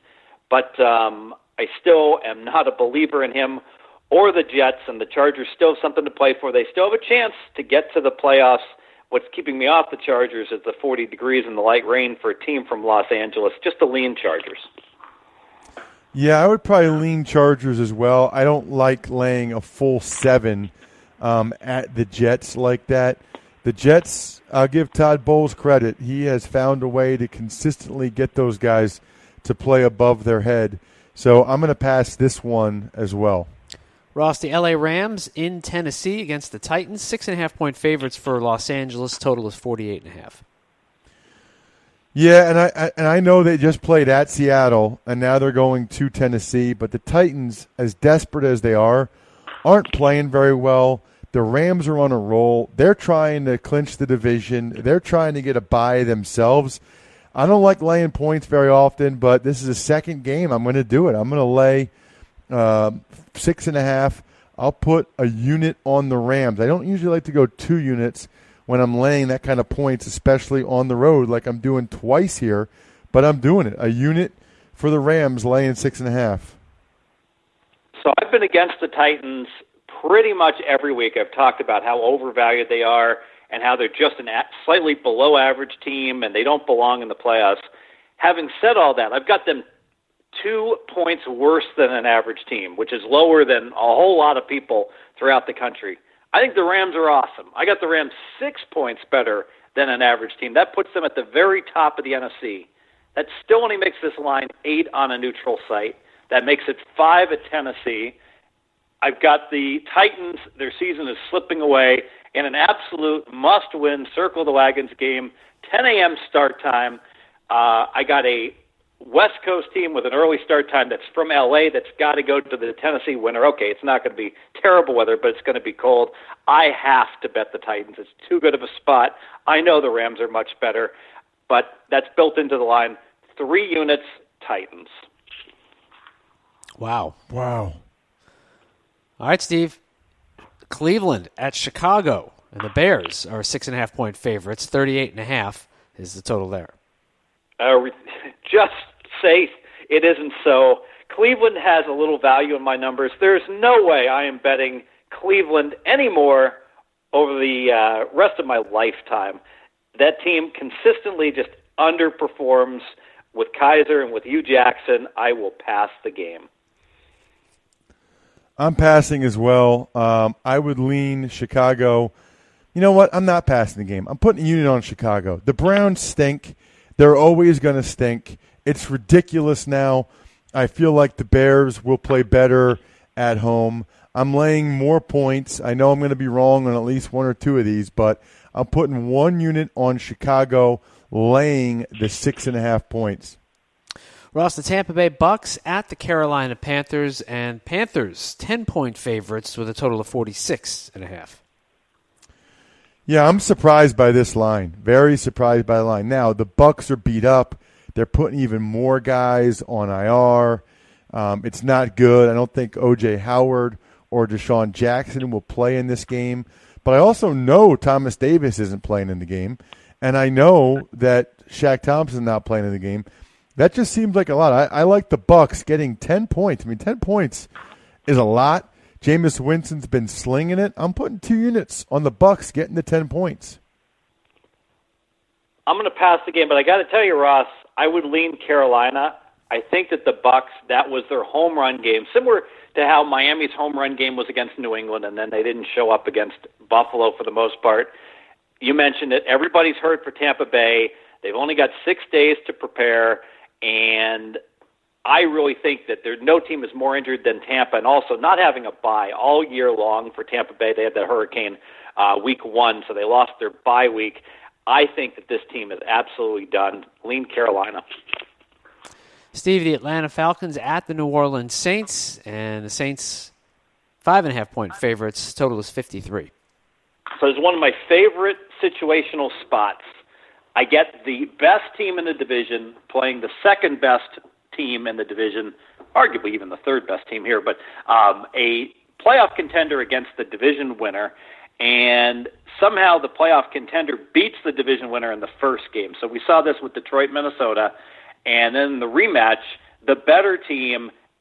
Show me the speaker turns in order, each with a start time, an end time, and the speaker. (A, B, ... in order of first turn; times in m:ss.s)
0:00.5-0:14.7 A
0:16.1-0:33.5 B
0:34.1-0:40.4 C
0:42.1-0:49.1 B
0:49.6-0:56.8 B
0:57.3-1:01.9 B
1:02.5-1:16.6 B
1:18.0-1:27.6 A
1:28.2-1:29.6 A
1:30.3-1:48.2 A
1:49.0-1:57.0 A
1:57.5-2:10.9 A
2:11.5-2:14.9 A
2:16.8-2:17.2 C
2:17.3-2:17.8 B
2:19.2-2:19.8 C
2:20.7-2:26.7 C
2:27.6-2:36.6 A
2:37.1-2:39.4 A
2:40.0-2:46.5 A
2:48.6-2:52.1 B
2:52.7-3:13.4 B
3:14.3-3:21.4 C
3:23.1-3:47.5 B
3:48.1-3:53.6 B
3:55.7-4:07.9 A
4:08.6-4:14.4 A
4:15.0-4:27.8 A
4:29.3-4:33.3 C
4:34.0-4:36.3 C
4:37.2-4:39.8 A
4:40.6-4:57.7 A
4:58.2-5:00.9 A